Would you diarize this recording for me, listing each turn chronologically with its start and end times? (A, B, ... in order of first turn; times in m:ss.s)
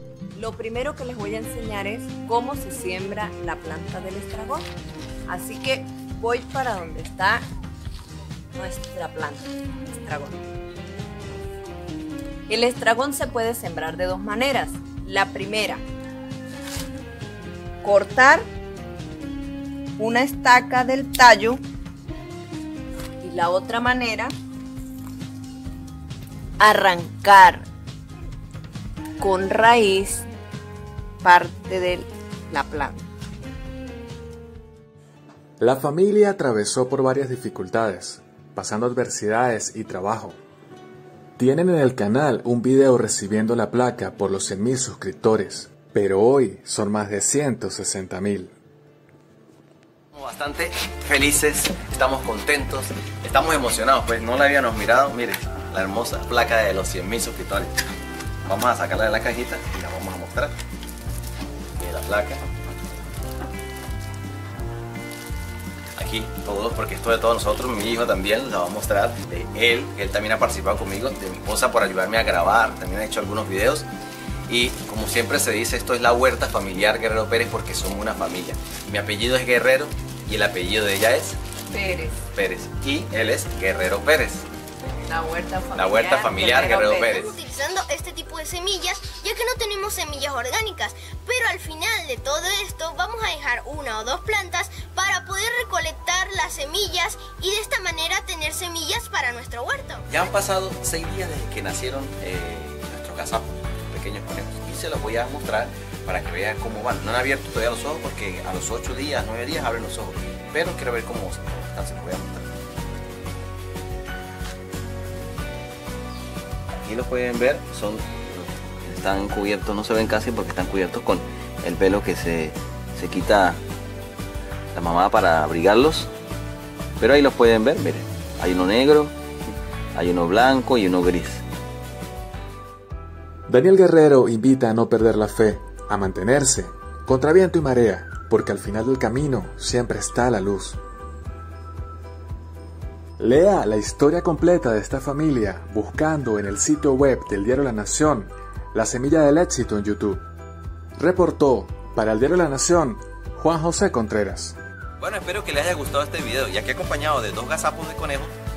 0:00.4-0:04.7 A
0:05.3-0:07.4 A
0:08.6-0:10.4 A
0:12.5-0:15.8 A
0:17.8-0:18.4 A
0:20.0-0:21.6 A
0:23.2-0:24.3 A
0:26.6-0:27.6 A
0:29.2-0:30.3 A
0:31.2-0:33.1 A
0:35.6-0:40.4 B
0:41.4-0:48.6 B
0:50.1-0:57.8 C
0:58.4-1:00.5 C
1:01.8-1:02.5 C
1:06.0-1:13.9 C
1:14.5-1:21.4 C
1:21.7-1:22.2 A
1:22.3-1:24.5 C
1:25.1-1:26.9 A
1:25.8-1:27.4 C
1:26.6-1:40.1 D
1:40.1-1:52.5 C
1:56.8-2:03.6 C
2:04.7-2:06.1 C
2:07.0-2:09.1 C
2:09.9-2:11.4 C
2:13.5-2:20.8 B
2:23.2-2:30.2 B
2:31.0-2:34.6 B
2:35.0-2:38.3 C